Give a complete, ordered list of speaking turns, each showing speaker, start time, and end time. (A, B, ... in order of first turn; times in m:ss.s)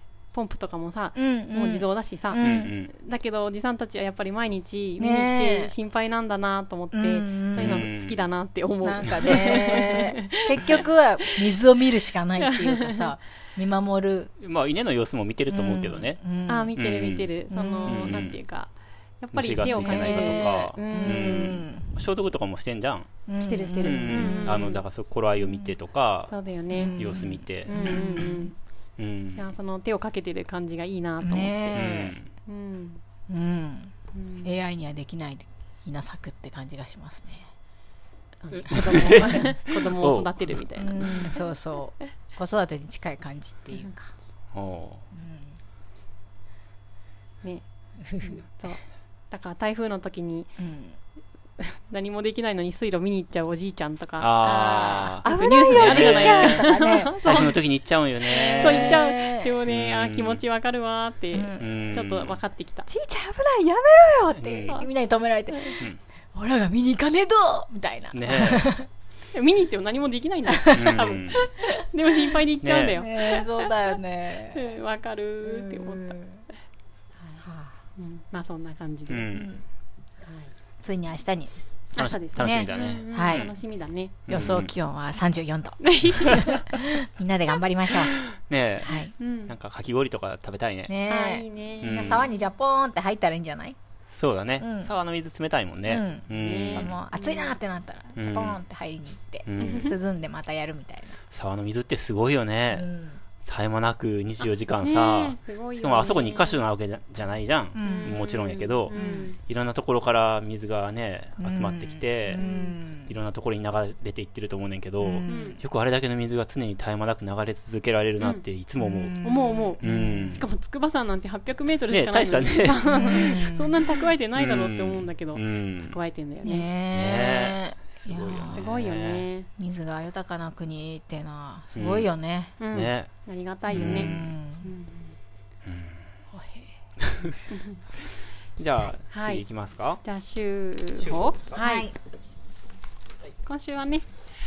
0:00.3-0:10.8 A
0:01.2-0:02.7 B
0:02.4-0:02.9 C
0:05.0-0:05.7 B
0:06.9-0:07.9 B
0:07.6-0:08.2 C
0:08.8-0:14.3 B
0:12.4-0:13.1 A
0:14.4-0:16.2 C
0:15.5-0:16.7 B
0:16.5-0:21.6 A
0:16.8-0:17.3 C
0:17.5-0:18.2 B
0:17.8-0:18.4 C
0:19.3-0:23.1 C
0:19.6-0:22.0 B
0:23.3-0:24.6 B
0:23.4-0:24.8 A
0:23.8-0:26.3 C
0:26.3-0:28.6 A
0:26.7-0:28.5 B
0:27.0-0:28.2 C
0:29.0-0:29.5 C
0:29.4-0:31.9 A
0:31.2-0:32.2 B
0:31.7-0:32.3 C
0:32.4-0:33.0 A
0:33.3-0:37.5 B
0:34.1-0:34.5 A
0:38.4-0:41.4 A
0:38.7-0:40.6 C
0:39.0-0:39.4 B
0:40.8-0:44.1 B
0:44.5-0:45.0 C
0:45.1-0:45.5 B
0:48.0-0:48.5 B
0:48.2-0:50.5 A
0:50.6-0:51.0 B
0:51.6-0:54.3 A
0:54.2-0:56.7 C
0:54.4-0:57.6 B
0:55.2-0:57.6 A
0:57.2-0:59.0 C
0:58.2-0:59.6 B
0:58.6-1:02.9 A
0:59.7-1:00.4 C
1:01.3-1:01.8 B
1:01.6-1:02.4 C
1:02.9-1:08.9 B
1:04.4-1:04.9 C
1:05.5-1:05.8 A
1:08.1-1:08.7 C
1:09.3-1:13.7 A
1:10.6-1:11.0 B
1:10.8-1:11.4 C
1:12.6-1:13.0 C
1:12.9-1:14.8 B
1:14.5-1:16.2 A
1:15.4-1:16.4 B
1:17.4-1:17.8 B
1:18.0-1:19.3 A
1:19.1-1:19.6 C
1:19.3-1:19.6 B
1:20.2-1:20.5 A
1:20.8-1:21.6 B
1:22.0-1:24.2 A
1:22.0-1:23.5 C
1:22.4-1:23.5 B
1:24.3-1:24.7 C
1:24.3-1:28.2 B
1:25.8-1:26.4 A
1:26.2-1:26.5 C
1:28.3-1:30.9 C
1:28.8-1:29.1 B
1:29.2-1:29.5 A
1:30.9-1:33.8 B
1:31.1-1:32.2 A
1:31.8-1:32.3 C
1:34.1-1:37.0 C
1:34.6-1:34.9 B
1:35.8-1:41.2 B
1:36.4-1:37.6 A
1:38.2-1:38.6 C
1:39.5-1:39.9 C
1:39.6-1:39.9 A
1:41.3-1:42.9 C
1:42.7-1:43.2 B
1:43.4-1:52.4 C
1:44.8-1:46.6 A
1:47.7-1:48.2 B
1:47.8-1:49.4 A
1:48.9-1:49.3 B
1:51.4-1:53.1 B
1:52.4-1:52.8 A
1:53.0-1:59.2 C
1:55.0-1:55.6 B
1:55.3-1:55.6 A
1:58.8-2:00.4 B
1:59.2-2:06.7 A
1:59.8-2:00.5 C
2:01.9-2:06.0 C
2:02.9-2:03.7 B
2:06.4-2:08.7 B
2:06.9-2:09.3 C
2:08.5-2:09.5 A
2:09.6-2:12.6 B
2:11.8-2:12.1 C
2:12.6-2:15.1 A
2:12.7-2:13.1 C
2:13.7-2:14.3 C
2:13.7-2:14.7 B
2:15.7-2:16.1 C
2:16.3-2:16.7 B
2:17.5-2:17.8 A
2:18.6-2:20.0 C
2:19.1-2:19.4 A
2:20.0-2:21.4 A
2:21.0-2:21.8 C
2:21.6-2:21.9 B
2:23.4-2:24.0 A